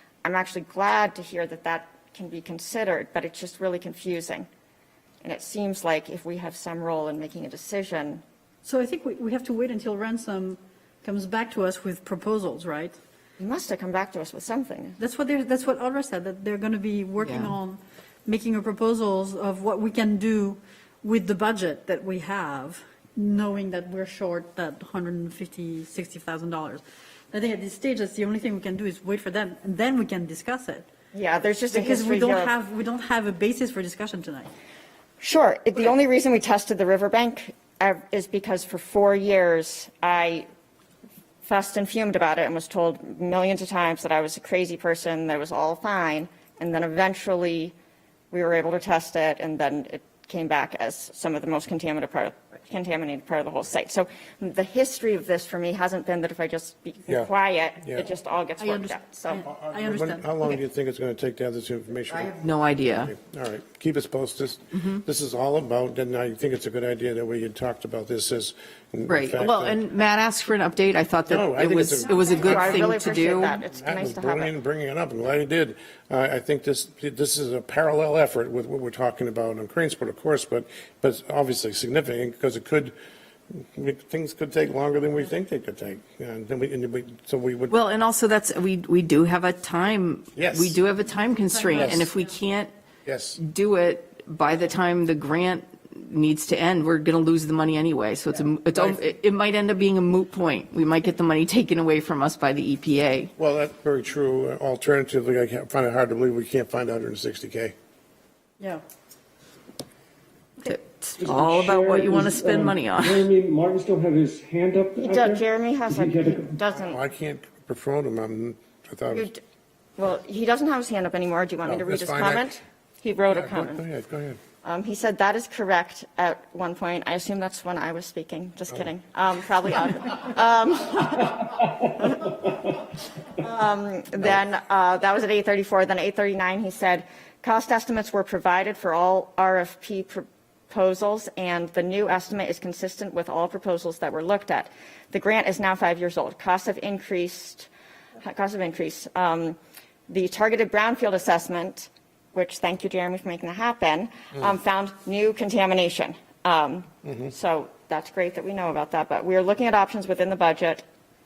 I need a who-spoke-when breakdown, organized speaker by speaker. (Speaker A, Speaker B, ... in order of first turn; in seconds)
Speaker A: 0.2-4.5, 5.2-8.2, 13.4-15.0, 31.1-32.5, 35.2-40.5, 41.4-47.7, 48.3-59.5, 72.3-74.5, 115.0-117.0, 119.1-119.4, 120.0-123.8, 124.6-132.5, 133.3-147.7, 148.2-149.6, 150.1-160.8
Speaker B: 8.6-12.9, 15.0-30.9, 31.7-34.5, 58.6-60.6, 91.5-92.3
Speaker C: 17.2-17.6, 62.4-63.1, 64.7-65.0, 69.1-73.6, 87.7-92.7, 93.4-103.3, 110.6-113.3
Speaker D: 59.4-69.8, 71.3-72.9, 73.7-82.9, 83.5-87.8, 90.3-90.8, 91.8-92.1, 93.0-93.4, 103.4-107.7, 116.8-119.3, 121.7-122.5, 123.3-124.4, 157.0-157.3
Speaker E: 111.2-116.6